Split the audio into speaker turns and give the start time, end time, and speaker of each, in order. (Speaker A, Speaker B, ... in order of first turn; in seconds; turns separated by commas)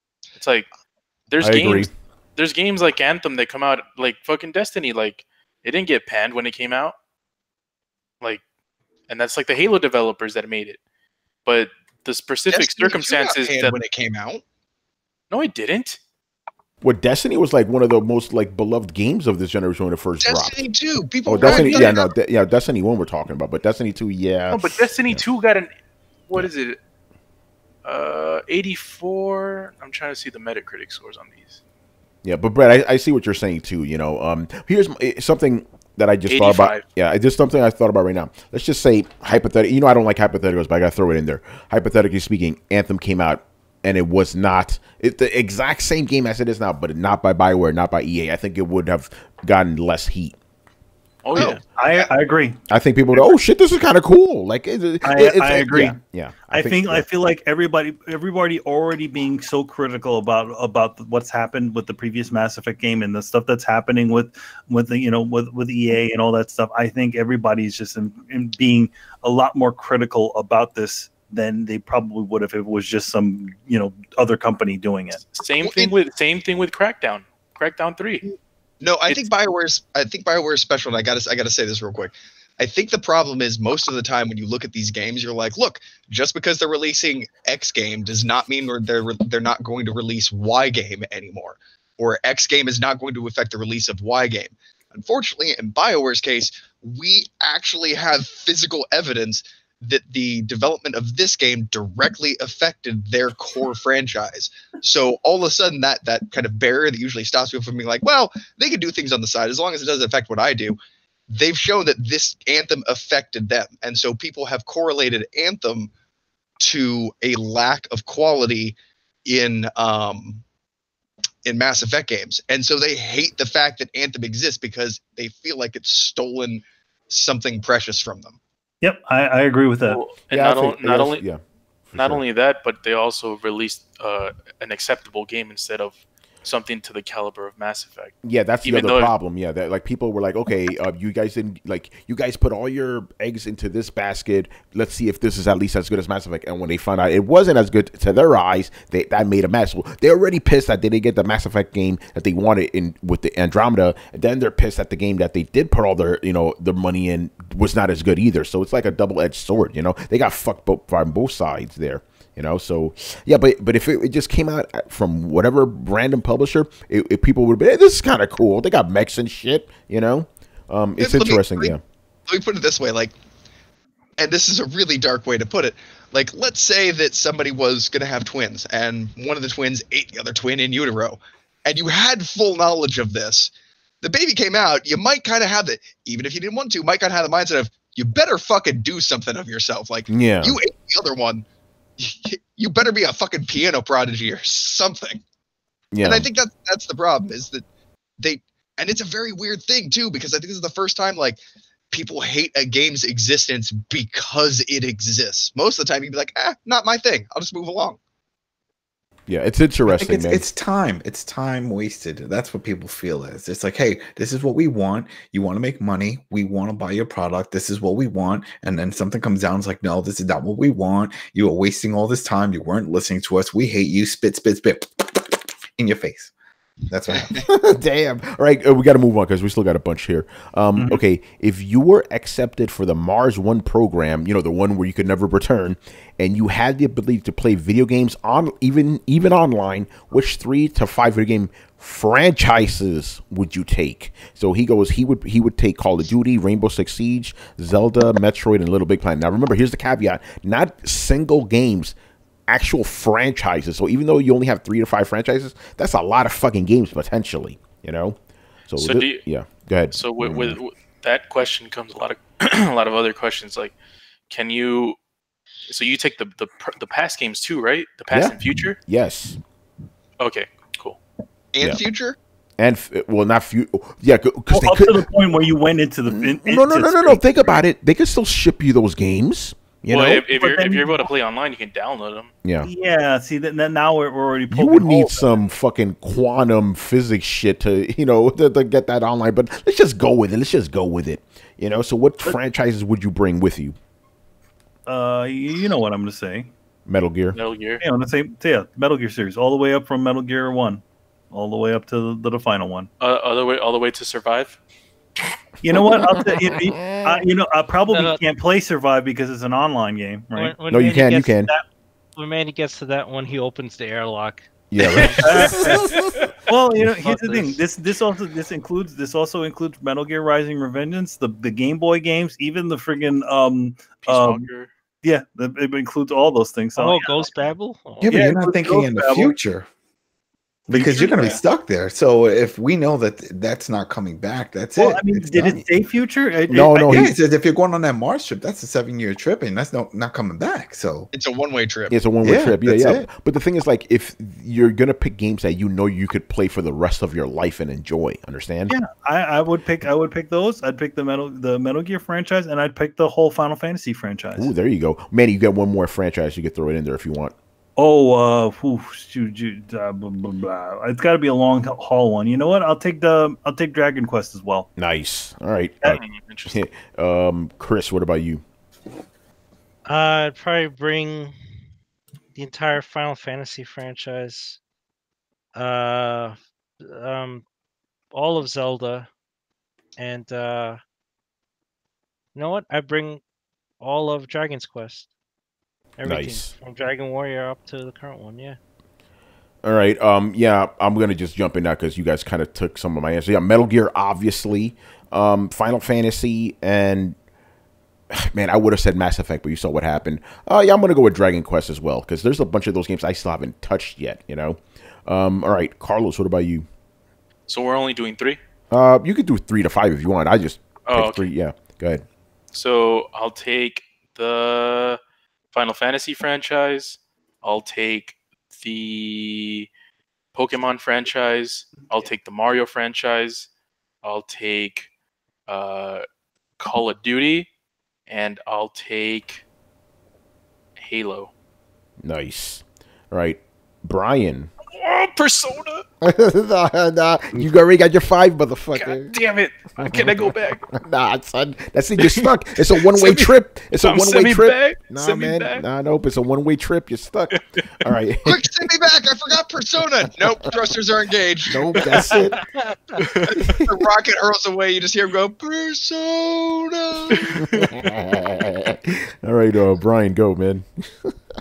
Speaker A: 0.4-0.7, Speaker A: 1.3-7.0, Speaker B: 1.4-1.9, Speaker A: 9.1-10.8, Speaker A: 11.4-13.8, Speaker C: 12.5-14.4, Speaker A: 15.3-16.0, Speaker B: 16.8-20.6, Speaker C: 20.2-22.1, Speaker B: 21.3-25.2, Speaker A: 21.4-22.0, Speaker A: 24.5-25.7, Speaker A: 26.3-26.8, Speaker A: 27.8-31.6, Speaker B: 32.2-50.4, Speaker A: 36.3-36.9, Speaker A: 51.2-51.6, Speaker C: 51.4-51.6, Speaker D: 51.4-52.6, Speaker B: 52.7-57.0, Speaker D: 55.0-56.0, Speaker D: 56.5-75.2, Speaker A: 75.3-78.2, Speaker C: 75.6-76.0, Speaker C: 78.8-110.8, Speaker C: 111.3-115.9, Speaker C: 116.6-120.4, Speaker C: 121.5-128.4, Speaker D: 128.8-130.0, Speaker A: 129.9-131.2, Speaker B: 130.3-132.2, Speaker A: 131.9-139.1, Speaker B: 138.2-171.8, Speaker C: 171.0-171.7, Speaker C: 172.3-173.1, Speaker C: 174.2-191.4, Speaker B: 190.1-190.6, Speaker C: 192.0-195.2, Speaker B: 195.9-196.3, Speaker C: 196.0-197.6, Speaker C: 198.2-201.4, Speaker C: 201.9-208.0, Speaker B: 209.3-210.5, Speaker E: 209.9-226.3, Speaker E: 226.9-227.4, Speaker B: 227.3-251.9, Speaker D: 230.8-231.0, Speaker B: 252.5-258.2, Speaker B: 258.7-260.6, Speaker A: 258.8-259.2, Speaker A: 259.9-263.8, Speaker A: 264.3-265.0, Speaker A: 265.7-268.8, Speaker B: 268.1-269.4, Speaker A: 270.2-271.0, Speaker C: 271.5-272.2, Speaker B: 272.6-275.1, Speaker D: 274.5-277.6, Speaker B: 276.1-280.2, Speaker D: 279.9-281.1, Speaker A: 279.9-282.3, Speaker B: 282.4-282.7, Speaker D: 282.6-285.4, Speaker B: 284.5-293.8, Speaker D: 294.9-296.5, Speaker B: 296.9-297.4, Speaker A: 297.3-297.8, Speaker D: 297.8-302.9, Speaker A: 303.0-304.6, Speaker D: 305.6-311.0, Speaker B: 306.1-307.2, Speaker F: 307.9-308.2, Speaker F: 310.4-314.5, Speaker B: 310.7-311.5, Speaker B: 314.7-316.1, Speaker A: 314.8-316.3, Speaker D: 315.2-315.8, Speaker D: 316.5-324.4, Speaker A: 324.0-324.7, Speaker D: 325.0-327.2, Speaker F: 326.8-328.2, Speaker E: 328.0-329.7, Speaker D: 328.1-329.4, Speaker E: 330.7-335.6, Speaker D: 330.7-331.4, Speaker D: 334.8-337.1, Speaker B: 336.5-337.1, Speaker E: 336.9-341.1, Speaker C: 341.1-342.0, Speaker B: 341.9-348.8, Speaker E: 342.2-343.0, Speaker D: 348.7-354.5, Speaker B: 354.4-357.3, Speaker D: 357.8-364.7, Speaker B: 364.8-368.4, Speaker A: 365.9-366.6, Speaker F: 369.9-371.4, Speaker F: 372.4-374.6, Speaker F: 375.6-377.4, Speaker F: 378.1-379.1, Speaker F: 380.0-380.8, Speaker F: 382.4-383.2, Speaker F: 383.8-385.1, Speaker F: 386.0-388.6, Speaker B: 386.0-386.5, Speaker B: 389.6-397.2, Speaker B: 398.1-406.7, Speaker A: 407.5-408.4, Speaker B: 408.7-412.1, Speaker A: 410.9-411.3, Speaker A: 412.5-415.0, Speaker A: 415.5-419.7, Speaker A: 420.3-423.5, Speaker A: 424.0-424.9, Speaker A: 425.5-426.0, Speaker A: 426.6-427.5, Speaker A: 428.1-429.4, Speaker A: 430.8-431.3, Speaker B: 432.0-434.5, Speaker A: 434.7-435.8, Speaker B: 436.0-439.1, Speaker A: 438.8-440.7, Speaker B: 439.8-448.5, Speaker A: 442.0-445.6, Speaker A: 447.3-447.9, Speaker C: 448.2-451.6, Speaker B: 451.5-452.4, Speaker F: 452.1-453.0, Speaker A: 453.0-453.6, Speaker B: 453.2-453.8, Speaker C: 453.6-457.5, Speaker A: 457.1-457.9, Speaker B: 457.5-461.2